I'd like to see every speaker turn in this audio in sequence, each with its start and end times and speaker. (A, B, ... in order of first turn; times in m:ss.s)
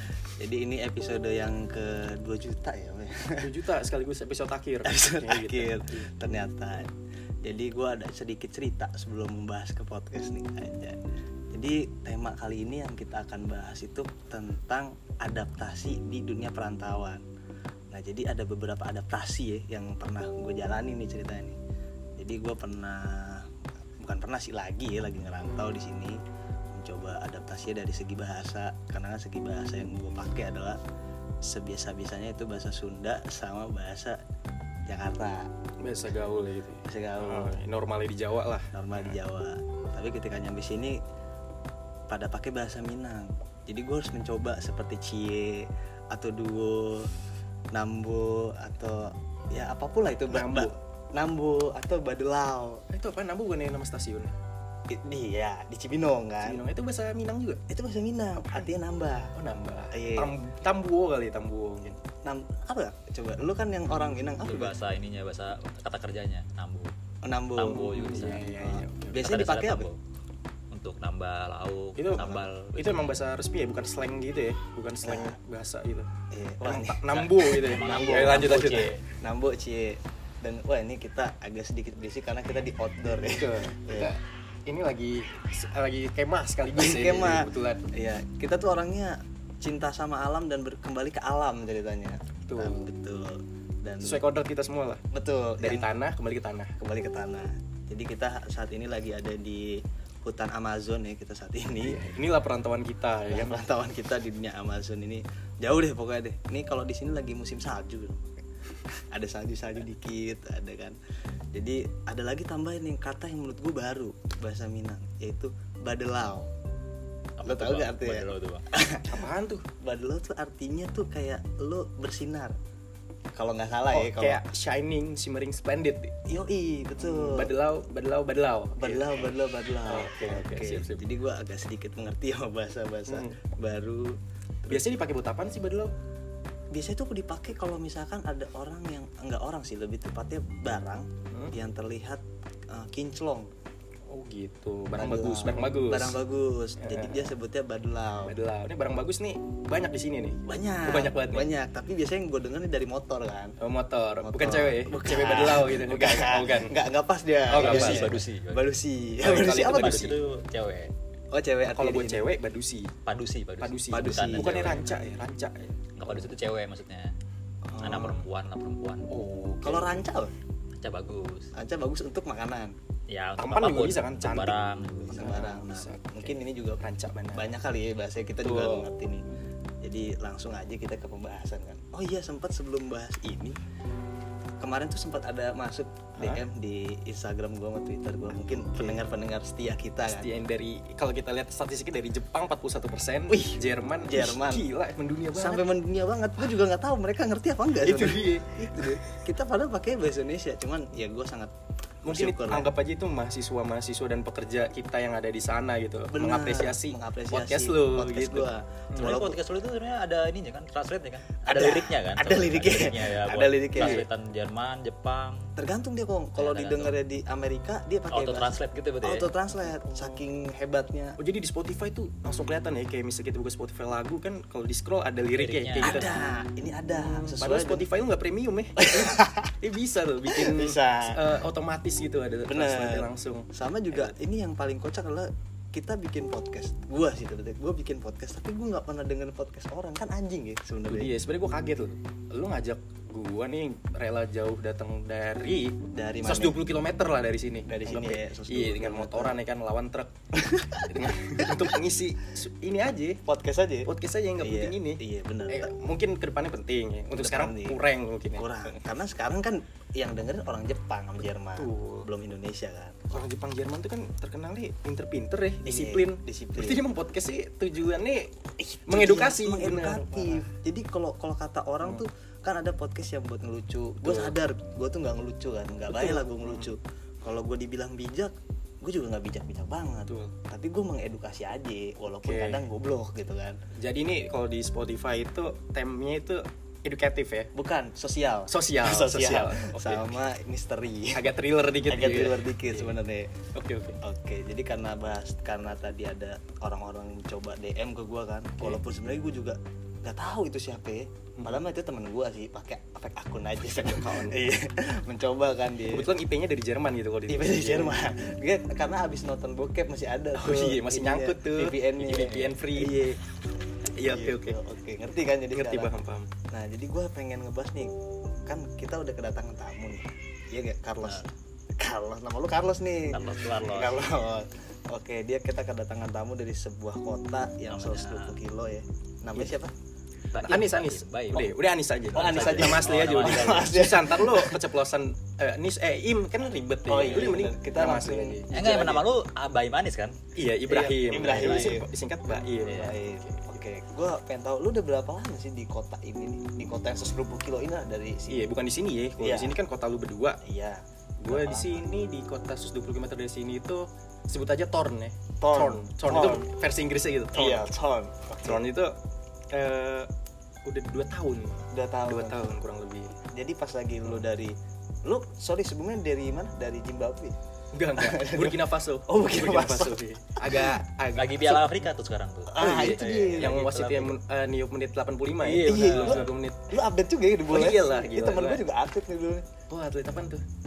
0:00.4-0:03.5 A
0:03.4-0:06.1 B
0:04.8-0:06.9 A
0:07.4-0:11.0 A
0:11.5-0:17.2 A
0:17.9-0:21.6 A
0:22.2-0:23.5 A
0:24.0-0:26.2 A
0:26.7-0:30.8 A
0:31.4-0:34.2 A
0:34.9-0:35.5 A
0:35.8-0:39.2 B
0:36.8-0:37.6 A
0:38.7-0:41.0 A
0:42.1-0:47.1 A
0:47.7-0:52.8 A
0:50.3-0:50.7 B
0:52.9-0:54.3 B
0:54.9-0:56.6 A
0:56.4-0:57.6 B
0:57.7-0:59.3 A
0:58.4-0:58.7 B
0:59.4-1:02.0 B
0:59.9-1:00.3 A
1:02.2-1:04.7 A
1:04.4-1:06.9 C
1:07.2-1:09.9 A
1:07.6-1:10.0 C
1:07.6-1:09.2 B
1:10.7-1:13.1 C
1:12.0-1:16.1 B
1:15.0-1:15.4 A
1:16.3-1:24.1 A
1:16.6-1:18.9 B
1:17.1-1:19.0 C
1:23.0-1:27.8 B
1:26.8-1:34.2 A
1:32.5-1:32.8 B
1:34.0-1:35.0 B
1:35.1-1:35.9 A
1:35.6-1:36.7 B
1:36.8-1:42.0 A
1:41.8-1:43.6 B
1:43.3-1:48.4 A
1:49.0-1:51.0 A
1:51.5-1:56.5 A
1:57.4-1:58.6 C
1:57.4-1:59.3 A
1:59.0-1:59.6 B
1:59.8-2:02.6 A
2:03.4-2:04.4 A
2:03.9-2:06.1 B
2:06.3-2:07.5 A
2:07.0-2:09.3 B
2:08.8-2:14.9 A
2:09.8-2:11.0 B
2:13.1-2:13.4 B
2:14.7-2:15.9 B
2:16.7-2:23.5 A
2:24.1-2:26.2 B
2:25.0-2:28.3 A
2:26.8-2:27.3 B
2:28.2-2:31.5 B
2:30.4-2:33.6 A
2:33.6-2:36.7 B
2:34.2-2:40.1 A
2:37.5-2:38.2 B
2:37.5-2:38.6 C
2:39.2-2:40.2 B
2:39.4-2:40.9 C
2:41.3-2:42.2 A
2:41.6-2:42.9 B
2:43.0-2:44.9 C
2:43.6-2:46.2 B
2:43.9-2:44.8 A
2:45.9-2:47.1 C
2:47.6-2:48.2 A
2:47.8-2:49.1 C
2:49.1-2:50.1 B
2:49.6-2:50.3 A
2:50.8-2:51.5 C
2:51.5-2:52.7 A
2:53.1-2:55.3 C
2:53.4-2:54.6 B
2:55.1-2:59.2 A
2:55.1-2:57.5 B
2:58.4-2:59.5 B
2:59.8-3:03.6 A
3:04.6-3:10.3 A
3:06.2-3:06.4 B
3:08.5-3:09.0 B
3:10.0-3:15.7 B
3:13.3-3:14.6 A
3:15.3-3:22.7 A
3:17.8-3:19.0 B
3:22.0-3:29.2 B
3:26.1-3:29.4 A
3:29.0-3:35.5 C
3:31.4-3:34.0 A
3:33.8-3:34.0 B
3:35.6-3:38.5 A
3:36.4-3:36.9 C
3:38.1-3:39.3 C
3:39.0-3:41.2 A
3:39.7-3:40.2 B
3:41.2-3:46.3 B
3:45.4-3:46.2 C
3:45.8-3:47.9 A
3:46.9-3:54.1 B
3:48.8-3:49.5 A
3:50.3-3:51.3 A
3:52.5-4:01.1 A
4:00.9-4:10.1 B
4:05.9-4:06.6 A
4:07.7-4:09.4 A
4:10.3-4:11.7 A
4:10.8-4:13.2 B
4:13.2-4:15.7 A
4:13.8-4:18.5 B
4:17.1-4:17.8 A
4:18.3-4:23.0 A
4:21.6-4:22.1 B
4:23.1-4:28.4 B
4:25.6-4:26.8 A
4:28.6-4:43.6 A
4:28.9-4:30.5 B
4:34.0-4:34.4 B
4:35.9-4:36.7 B
4:40.0-4:40.3 B
4:42.2-4:42.6 B
4:43.8-4:47.5 B
4:47.5-4:51.2 A
4:48.5-4:50.2 B
4:51.1-4:53.0 B
4:51.8-4:53.3 A
4:53.5-4:54.0 B
4:54.0-5:06.1 A
5:01.4-5:01.6 B
5:03.7-5:04.4 B
5:05.9-5:08.0 B
5:07.3-5:13.2 A
5:10.3-5:13.2 B
5:13.9-5:14.6 B
5:14.0-5:15.9 A
5:15.5-5:16.3 B
5:16.5-5:17.9 A
5:18.4-5:21.3 A
5:21.8-5:29.7 A
5:23.0-5:24.1 C
5:27.7-5:28.4 C
5:30.3-5:31.5 C
5:30.3-5:38.5 B
5:32.1-5:33.8 C
5:32.1-5:34.6 A
5:36.8-5:39.0 A
5:38.5-5:40.2 C
5:40.3-5:43.6 B
5:40.7-5:41.9 A
5:41.2-5:41.8 C
5:42.6-5:42.9 C
5:42.6-5:48.5 A
5:48.3-5:50.4 B
5:49.2-5:49.6 A
5:50.4-5:51.9 A
5:51.2-5:57.6 B
5:55.4-5:56.5 A
5:57.3-5:58.6 A
5:58.4-5:59.0 B
5:59.5-6:00.1 B
6:00.6-6:03.2 B
6:01.7-6:02.5 A
6:03.3-6:07.3 A
6:07.7-6:11.7 B
6:08.0-6:10.8 A
6:11.1-6:14.1 C
6:12.5-6:13.6 A
6:12.6-6:16.7 B
6:15.4-6:19.5 A
6:15.6-6:16.2 C
6:17.5-6:18.6 B
6:19.7-6:20.4 B